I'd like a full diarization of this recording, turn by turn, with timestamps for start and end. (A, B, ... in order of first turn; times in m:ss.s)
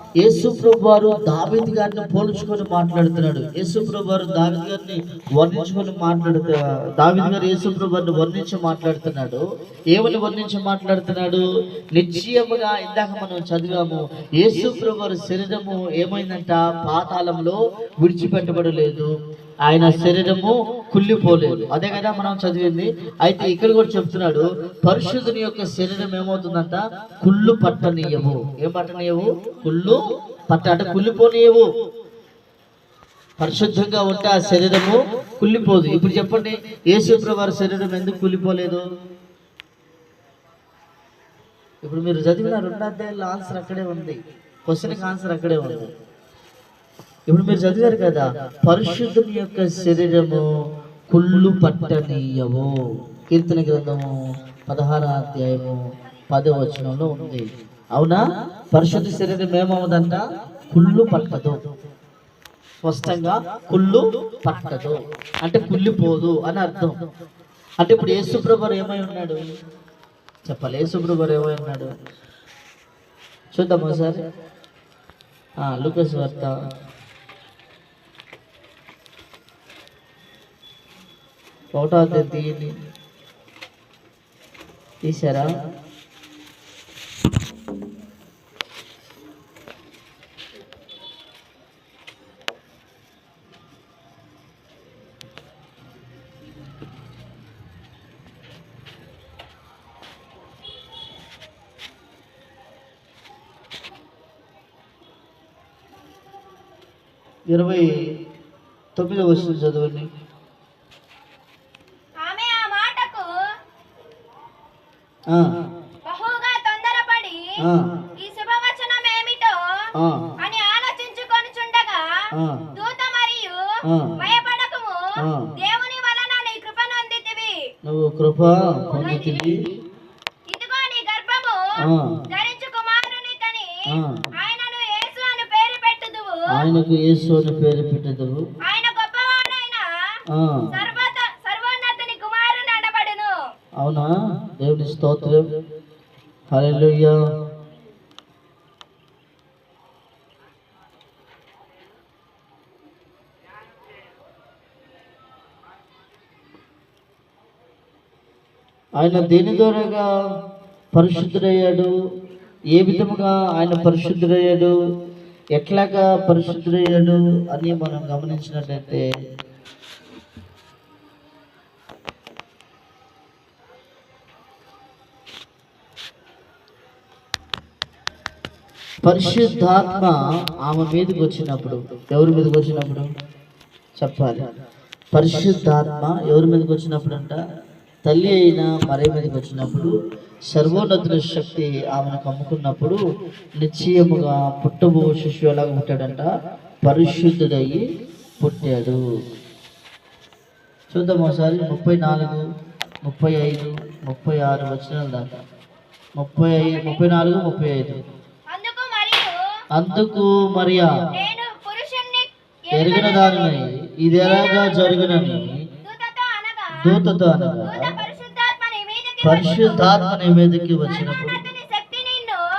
0:00.2-0:11.4 A
0:12.0-0:19.1 A
0:19.6-0:30.0 A
0:30.5-0:31.6 A
0:33.4-0:38.8 A
0:41.8-0:45.9 A
0:47.3-0:50.4 A
0:51.1-0:52.7 A
0:53.3-0:54.1 A
0:54.7-0:57.4 A
0:58.0-0:58.2 A
0:58.7-1:01.6 A
1:02.8-1:06.9 A
1:07.8-1:09.4 A
1:10.5-1:11.9 A
1:13.5-1:14.2 A
1:15.6-1:16.5 A
1:21.7-1:22.7 A
1:25.0-1:25.5 A
1:47.5-1:47.9 A
1:49.0-1:50.1 A
1:52.2-1:53.3 B
1:56.1-1:57.4 B
1:58.2-1:59.6 B
2:00.4-2:02.0 B
2:02.8-2:05.0 B
2:05.2-2:05.5 A
2:05.6-2:07.6 B
2:07.9-2:09.6 A
2:08.9-2:09.5 B
2:10.5-2:11.6 B
2:11.8-2:12.1 A
2:12.3-2:13.7 B
2:13.9-2:14.2 A
2:14.4-2:16.7 B
2:16.5-2:18.4 A
2:18.6-2:19.9 B
2:20.3-2:20.6 A
2:20.7-2:23.4 B
2:23.8-2:25.4 A
2:26.5-2:27.2 A
2:39.0-2:40.0 A
2:40.9-2:41.9 A
2:42.8-2:44.7 A
2:45.6-2:49.1 A
2:59.0-3:03.1 A
3:04.0-3:04.4 A
3:05.1-3:07.4 A
3:08.0-3:09.9 A
3:10.5-3:13.0 A
3:13.6-3:16.3 A
3:16.8-3:17.8 A
3:18.4-3:19.0 A
3:20.9-3:22.4 A
3:23.0-3:25.4 A
3:26.2-3:28.0 A
3:28.5-3:29.4 B
3:29.8-3:30.9 A
3:31.1-3:33.5 B
3:32.8-3:35.5 A
3:34.2-3:36.8 B
3:36.8-3:37.9 A
3:37.6-3:40.0 B
3:39.2-3:41.4 A
3:40.9-3:42.4 B